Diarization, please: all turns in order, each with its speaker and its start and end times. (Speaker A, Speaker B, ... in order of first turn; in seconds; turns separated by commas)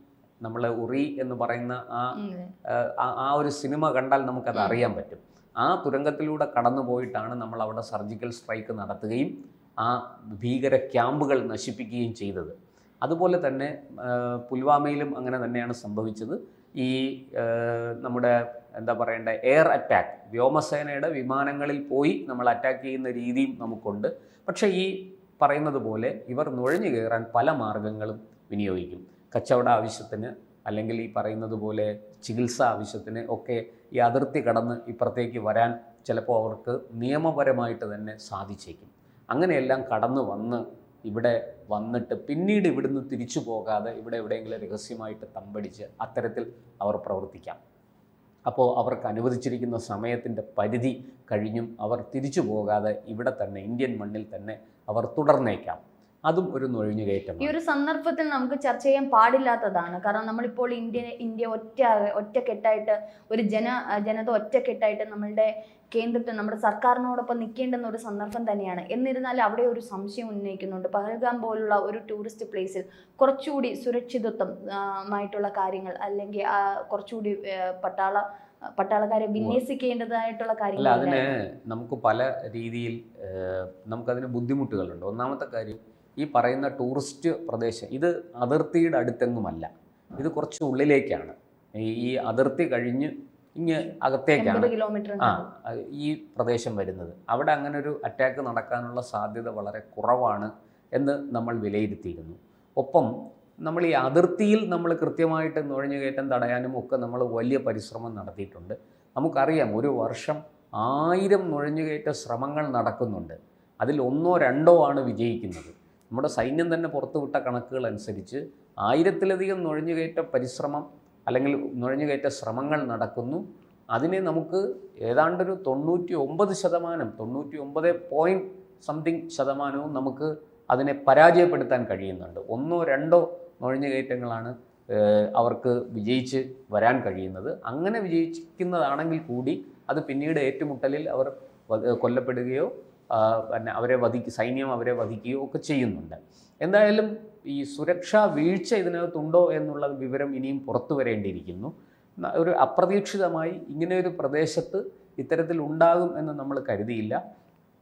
Speaker A: 0.4-2.1, Speaker B: 2.1-2.5, Speaker A: 2.7-47.6, Speaker B: 4.5-4.8, Speaker A: 48.5-57.5, Speaker B: 57.4-78.2, Speaker B: 78.8-81.3, Speaker A: 80.8-103.1, Speaker B: 94.4-95.5, Speaker A: 103.7-151.7, Speaker A: 152.2-157.2